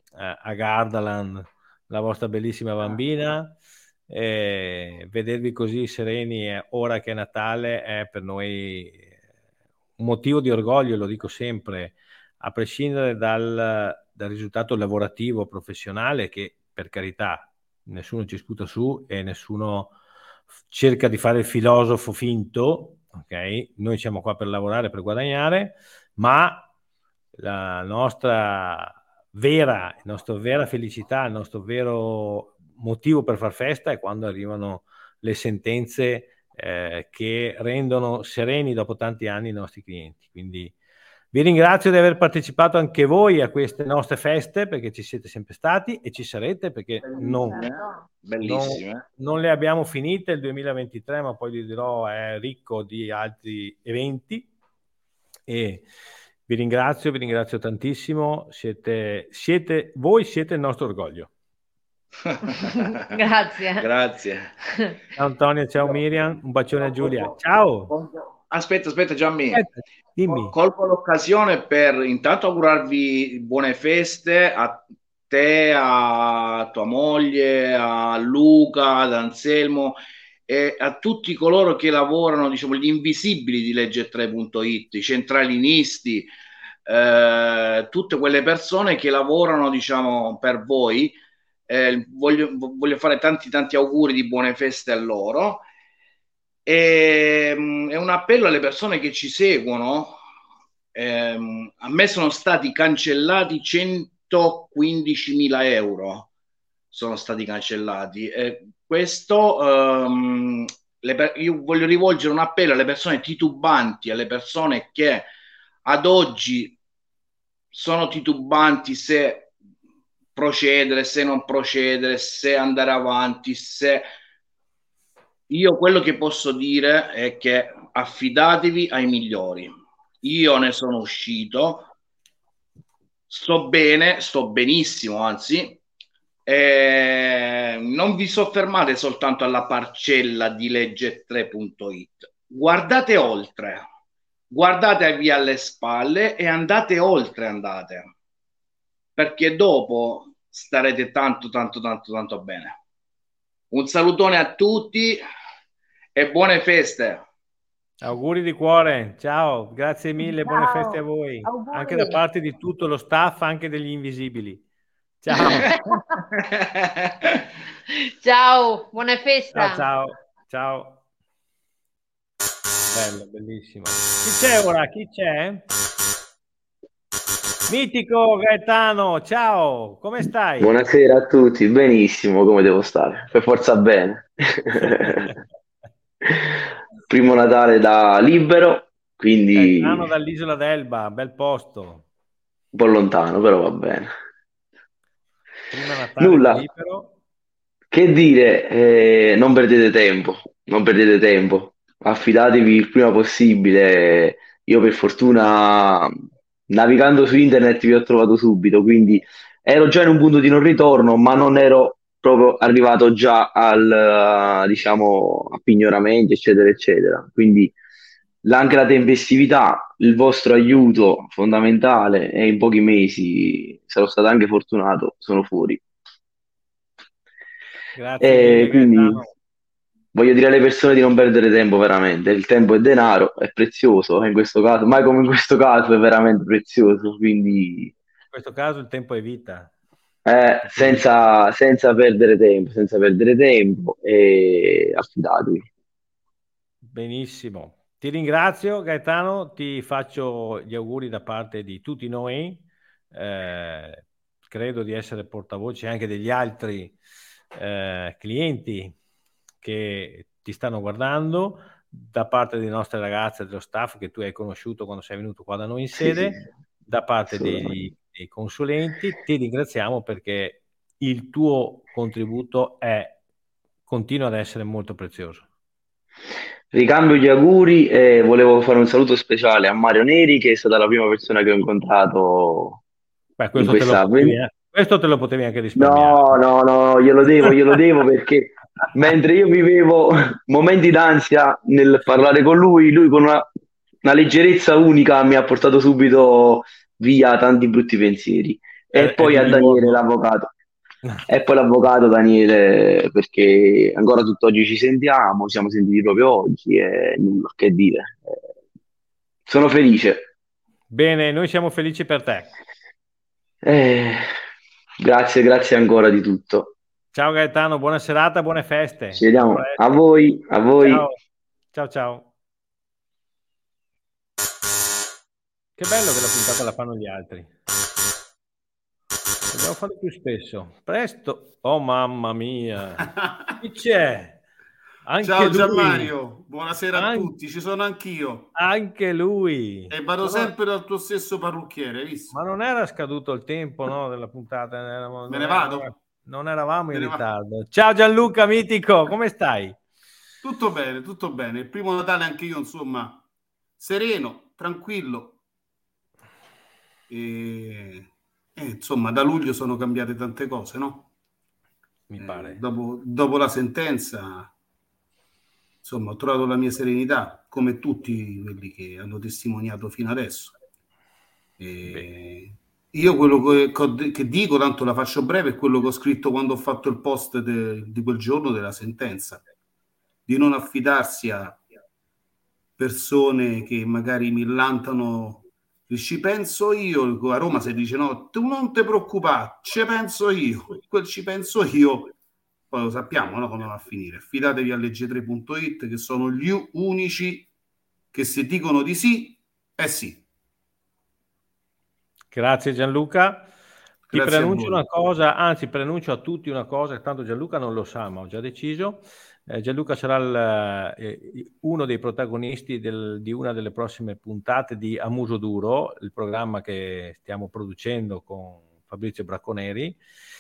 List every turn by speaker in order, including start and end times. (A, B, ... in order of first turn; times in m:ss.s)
0:00.2-0:03.6 A
0:04.1-0:09.1 A
0:10.0-0:19.9 A
0:20.7-0:26.7 A
0:27.4-0:40.7 A
0:41.3-0:47.6 A
0:47.0-0:49.0 B
0:48.4-0:54.5 A
0:55.5-0:55.8 A
0:56.5-1:01.3 A
1:02.6-1:03.2 B
1:03.0-1:03.9 C
1:03.8-1:04.5 B
1:05.2-1:07.9 A
1:06.8-1:07.3 B
1:07.9-1:09.6 B
1:09.5-1:10.5 A
1:10.2-1:26.3 B
1:26.9-1:31.2 B
1:31.7-1:35.6 B
1:36.6-1:40.2 B
1:40.9-1:46.3 B
1:46.9-1:55.3 B
1:55.8-1:56.8 B
1:57.7-1:59.5 B
2:00.3-2:04.1 B
2:05.5-2:11.9 B
2:13.3-2:15.8 B
2:16.4-2:23.8 B
2:24.5-2:28.1 B
2:29.2-2:32.8 B
2:33.7-2:35.2 B
2:36.2-2:37.2 B
2:38.0-2:44.6 A
2:41.6-2:42.1 C
2:45.2-2:45.7 A
2:45.7-2:45.9 C
2:48.2-2:49.8 C
2:49.5-2:51.0 A
2:52.9-2:55.6 A
2:57.7-3:00.7 A
3:00.6-3:05.3 D
3:05.0-3:05.3 A
3:07.1-3:10.1 D
3:09.5-3:12.0 A
3:12.7-3:14.1 D
3:15.7-3:17.1 A
3:16.2-3:16.6 D
3:17.9-3:26.2 D
3:26.7-3:37.7 D
3:38.4-3:45.8 D
3:48.0-3:49.3 A
3:48.2-3:49.2 D
3:50.1-3:57.9 D
3:58.3-3:59.7 A
4:00.2-4:05.7 D
4:00.7-4:01.0 A
4:06.8-4:17.0 A
4:17.5-4:18.9 A
4:19.6-4:33.1 A
4:26.0-4:26.4 D
4:27.3-4:27.9 D
4:33.9-4:35.4 A
4:36.7-4:42.8 D
4:43.4-4:46.4 A
4:43.5-4:44.4 D
4:45.8-4:53.4 D
4:54.0-5:00.5 D
4:58.9-5:00.0 A
5:01.3-5:08.3 D
5:09.5-5:10.3 D
5:10.9-5:12.5 A
5:13.6-5:14.2 D
5:15.0-5:16.7 D
5:17.1-5:19.8 A
5:19.1-5:21.0 D
5:20.8-5:21.1 A
5:21.7-5:22.3 A
5:25.8-5:27.5 A
5:29.5-5:34.4 A
5:35.0-5:36.1 A
5:35.2-5:38.5 E
5:36.9-5:37.3 A
5:38.5-5:40.5 A
5:39.9-5:42.3 E
5:42.3-5:49.8 A
5:45.3-5:45.9 E
5:46.9-5:47.2 E
5:50.4-5:53.2 E
5:53.8-5:55.4 E
5:57.1-6:01.0 E
6:02.1-6:02.6 A
6:02.2-6:04.5 E
6:05.8-6:10.5 E
6:11.6-6:19.4 E
6:20.3-6:21.6 E
6:22.8-6:32.1 E
6:32.7-6:37.5 E
6:38.1-6:40.2 E
6:42.3-6:43.5 A
6:44.1-6:44.8 E
6:44.1-7:00.0 A